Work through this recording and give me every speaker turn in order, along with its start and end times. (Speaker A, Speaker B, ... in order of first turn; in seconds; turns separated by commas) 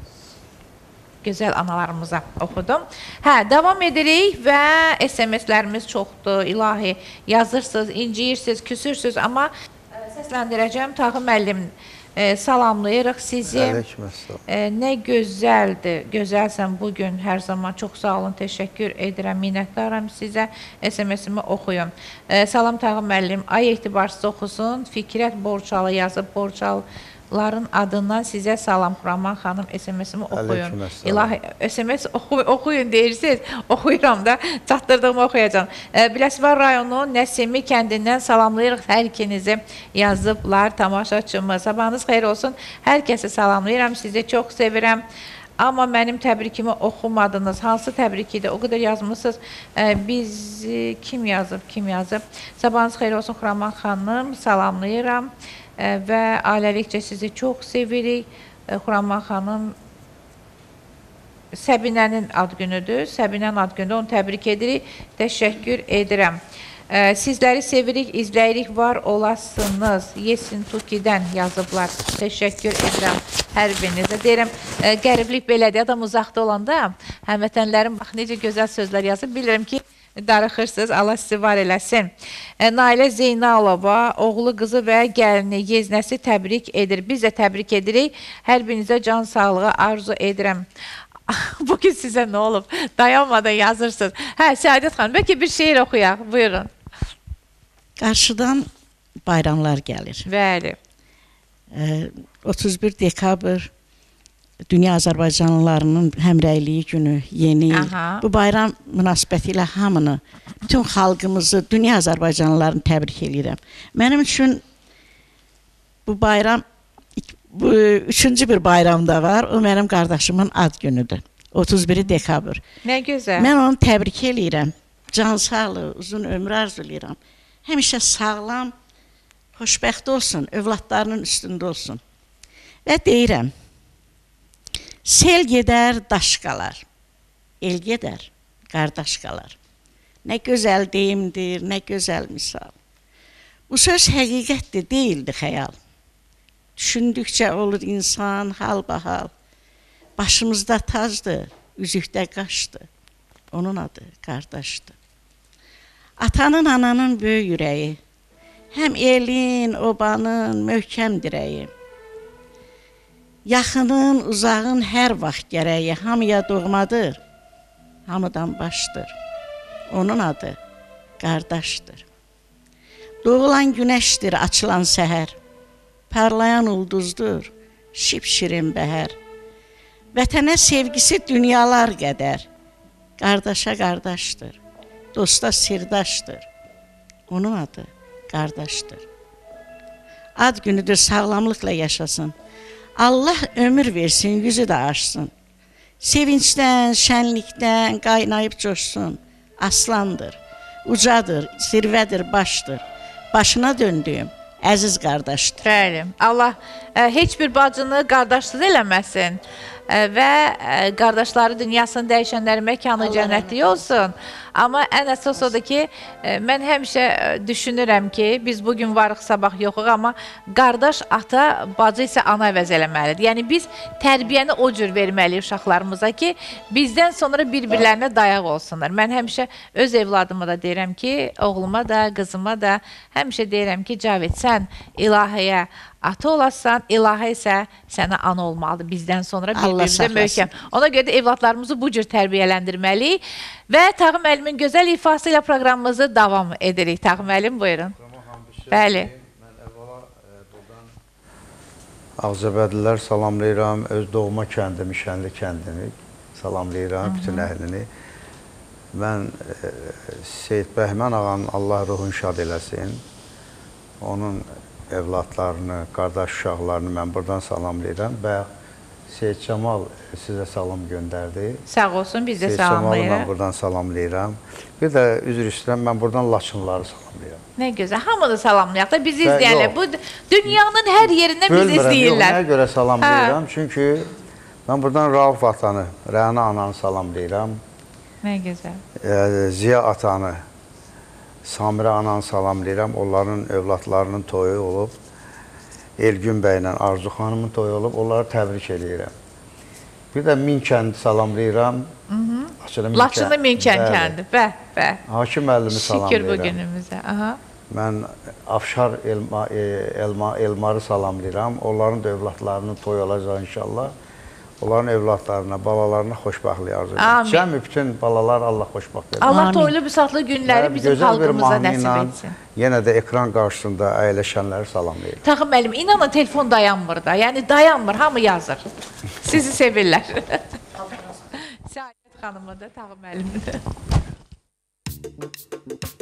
Speaker A: 1.2-13.8, Speaker B: 13.5-14.4, Speaker A: 14.5-45.0, Speaker B: 30.3-31.3, Speaker A: 45.6-59.7, Speaker A: 61.5-66.4, Speaker A: 66.9-90.6, Speaker A: 91.3-96.7, Speaker C: 98.0-98.7, Speaker C: 99.3-100.3, Speaker A: 100.3-100.8, Speaker C: 101.7-103.7, Speaker C: 104.7-114.6, Speaker A: 107.7-108.2, Speaker C: 116.1-116.6, Speaker C: 117.2-122.6, Speaker A: 122.8-123.5, Speaker C: 123.4-128.7, Speaker C: 129.6-132.0, Speaker C: 132.8-133.5, Speaker C: 135.1-136.8, Speaker C: 137.6-139.6, Speaker C: 140.2-142.7, Speaker C: 143.7-145.8, Speaker C: 146.8-149.3, Speaker C: 150.2-152.9, Speaker C: 153.5-154.9, Speaker C: 156.2-158.0, Speaker C: 158.7-161.7, Speaker C: 163.4-167.2, Speaker C: 168.1-169.1, Speaker C: 169.9-170.6, Speaker C: 171.2-172.1, Speaker C: 173.2-175.3, Speaker C: 176.1-179.2, Speaker C: 180.1-182.5, Speaker C: 183.2-184.6, Speaker C: 185.1-186.5, Speaker C: 187.3-189.1, Speaker C: 190.4-192.3, Speaker C: 193.0-195.3, Speaker C: 196.0-205.6, Speaker A: 205.6-247.9, Speaker C: 213.0-213.8, Speaker C: 239.5-240.5, Speaker B: 247.9-250.9, Speaker A: 248.7-249.1, Speaker B: 252.2-257.9, Speaker A: 257.0-257.5, Speaker B: 258.9-263.0, Speaker B: 264.0-268.4, Speaker B: 269.1-271.6, Speaker A: 271.7-273.3, Speaker B: 272.4-277.4, Speaker A: 277.6-282.4, Speaker B: 279.2-279.7, Speaker B: 281.5-284.1, Speaker A: 283.0-283.4, Speaker B: 284.6-287.6, Speaker A: 288.2-288.8, Speaker B: 289.0-290.4, Speaker B: 291.4-294.9, Speaker B: 296.0-299.1, Speaker B: 300.1-301.9, Speaker A: 302.1-305.0, Speaker B: 302.6-304.1, Speaker B: 305.1-306.6, Speaker A: 305.7-307.4, Speaker B: 307.7-313.9, Speaker B: 314.6-319.5, Speaker A: 317.0-317.4, Speaker A: 319.2-322.4, Speaker C: 319.2-319.7, Speaker B: 320.4-325.2, Speaker A: 325.2-328.7, Speaker A: 329.2-330.4, Speaker A: 331.3-333.6